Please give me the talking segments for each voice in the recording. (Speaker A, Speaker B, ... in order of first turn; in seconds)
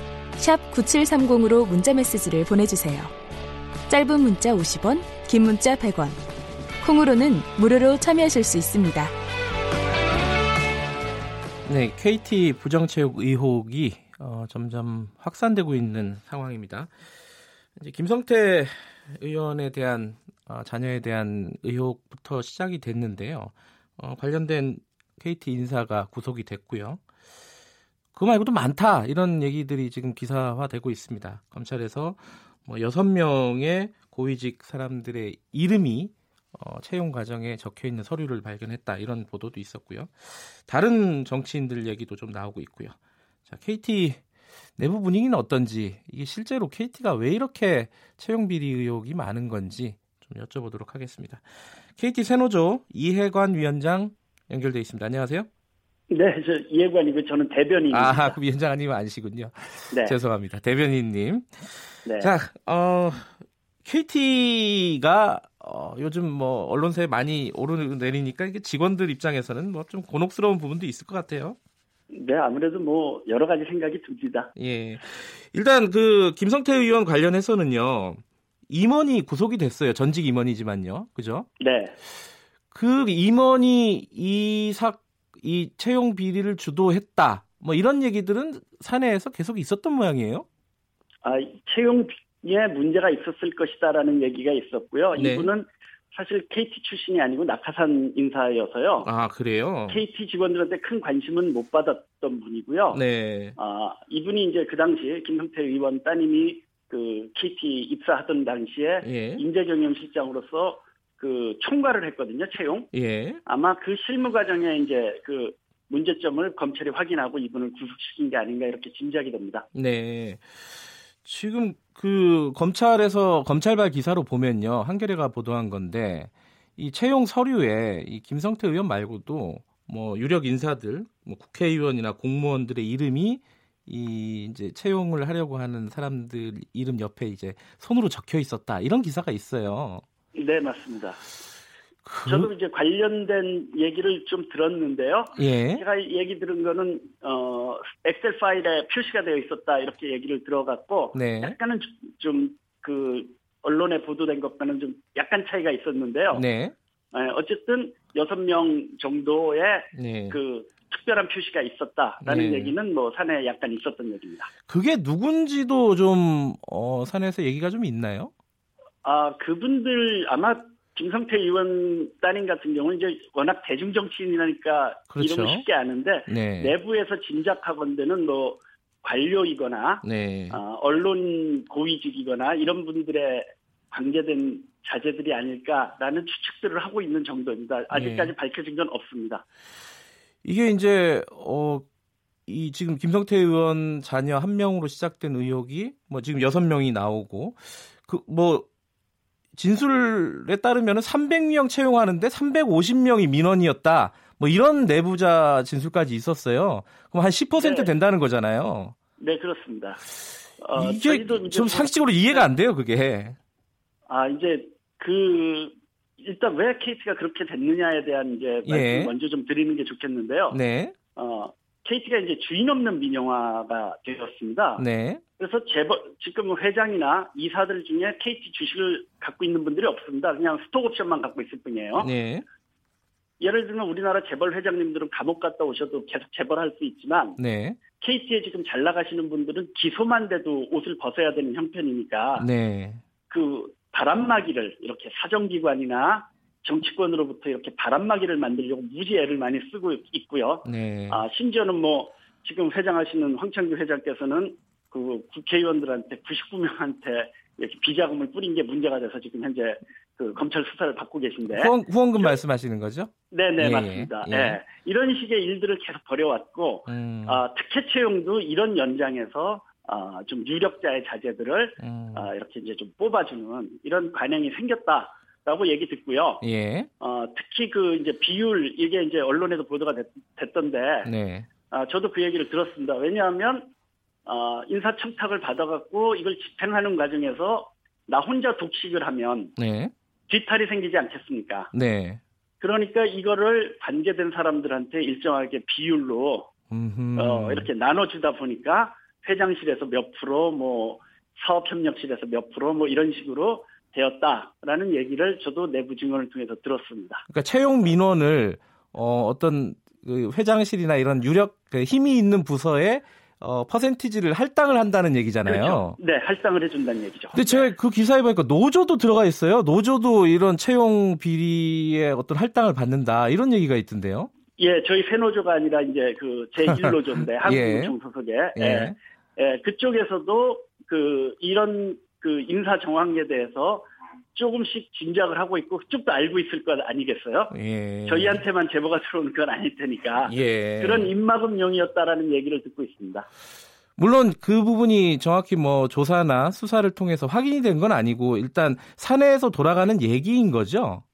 Speaker A: 0.4-3.1, 3.9-6.2, 6.8-9.1
Speaker B: 11.6-16.9, 17.8-27.0, 28.1-42.9, 43.5-44.2, 44.8-51.4, 52.0-55.5, 57.9-63.3, 63.8-71.6, 74.5-81.5, 82.7-90.5, 95.1-95.5, 99.0-100.0, 102.9-103.6, 109.0-109.4, 112.9-113.4, 119.7-120.6, 121.2-140.0, 142.0-142.5, 145.3-145.8, 151.1-151.6, 156.3-156.7, 159.9-160.4, 162.2-162.7, 164.7-168.3, 175.1-175.6, 176.3-176.8, 180.0-180.6, 187.9-188.3, 190.4-191.8, 192.5-198.7, 199.6-208.9, 210.7-213.3, 218.6-219.1, 220.5-220.9, 224.8-225.2, 231.9-232.4, 237.4-237.8, 242.4-243.0, 250.6-251.2, 261.5-264.6, 266.9-267.4, 271.8-272.3, 276.4-276.9, 281.0-281.5, 289.6-289.9, 291.7-292.2, 296.7-297.7, 307.3-316.0, 317.3-324.3, 326.7-327.9, 328.6-328.9, 337.5-338.4, 340.2-341.1, 344.0-351.0
Speaker C: 56.1-58.4, 59.9-60.2, 62.0-62.3, 72.1-74.5, 81.6-82.0, 91.2-99.1, 99.9-103.0, 103.6-112.9, 113.4-119.7, 140.3-141.2, 142.2-156.4, 157.1-164.5, 169.0-189.4, 207.6-207.9, 209.2-210.0, 210.6-212.5, 214.1-220.6, 221.1-224.8, 225.4-232.1, 233.4-237.4, 237.9-242.5, 243.3-262.4, 263.3-276.4, 277.0-281.1, 281.7-283.7, 284.2-289.5, 290.3-291.7, 292.6-296.5, 297.1-307.2, 315.4-317.7, 324.6-337.5, 338.1-343.3